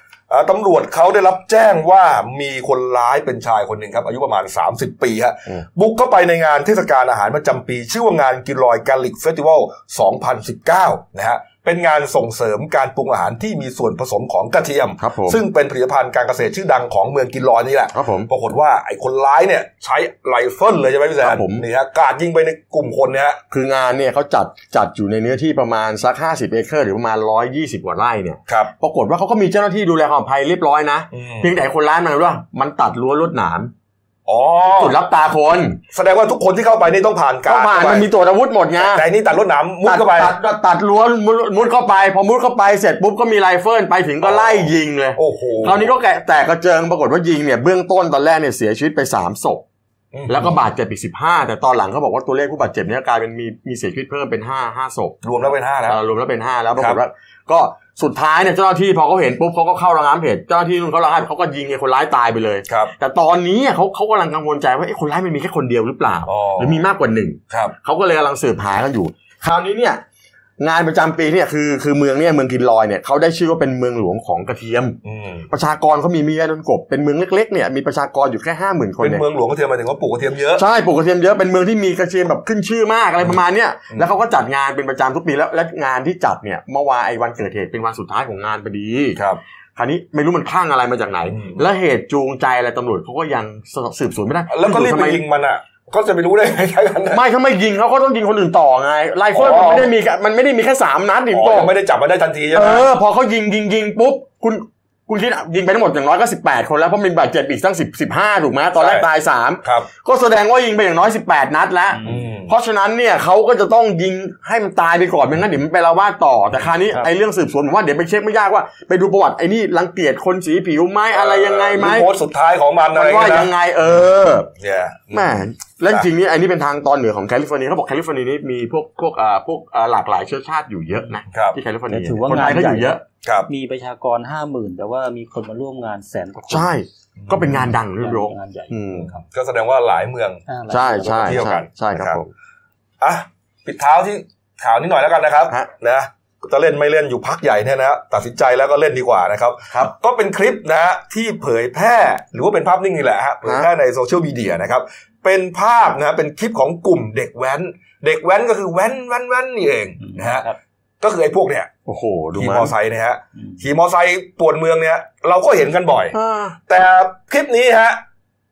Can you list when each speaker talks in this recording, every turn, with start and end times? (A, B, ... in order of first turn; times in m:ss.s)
0:00.3-0:23.4 A
0:15.0-0:15.4 B
0:17.9-0:18.3 B
0:21.2-0:21.6 B
0:23.5-0:33.7 B
0:31.1-0:31.5 A
0:34.2-0:35.0 A
0:34.8-0:35.8 B
0:35.9-0:38.1 A
0:37.4-0:39.1 B
0:38.8-0:40.4 A
0:39.8-0:49.6 B
0:44.2-0:45.9 A
0:50.1-0:50.6 A
0:50.3-0:55.2 B
0:55.2-0:56.0 A
0:55.9-1:10.0 B
1:02.7-1:02.9 A
1:06.3-1:06.8 A
1:07.5-1:07.7 A
1:10.6-1:15.0 B
1:15.0-1:15.5 A
1:15.5-1:19.2 B
1:19.0-1:20.6 A
1:20.6-1:29.2 B
1:29.8-1:35.2 B
1:31.3-1:31.7 A
1:34.5-1:37.2 A
1:37.1-1:41.7 B
1:39.3-1:39.9 A
1:41.3-1:42.9 A
1:42.5-2:02.1 B
1:48.7-1:49.1 A
1:52.0-1:52.2 C
1:52.0-1:52.5 A
2:01.1-2:03.5 A
2:02.9-2:04.5 B
2:04.6-2:05.3 A
2:05.1-2:13.0 B
2:11.3-2:11.6 A
2:11.9-2:16.7 C
2:13.2-2:13.5 A
2:16.5-2:19.1 B
2:17.2-2:17.6 A
2:18.0-2:19.2 C
2:18.9-2:20.4 A
2:20.5-2:21.4 C
2:20.7-2:22.3 B
2:21.1-2:22.2 A
2:23.0-2:40.5 A
2:33.4-2:33.7 B
2:40.0-2:40.6 C
2:41.0-2:41.7 A
2:41.8-2:42.7 B
2:42.3-2:46.2 A
2:46.1-2:46.6 B
2:46.7-2:48.0 A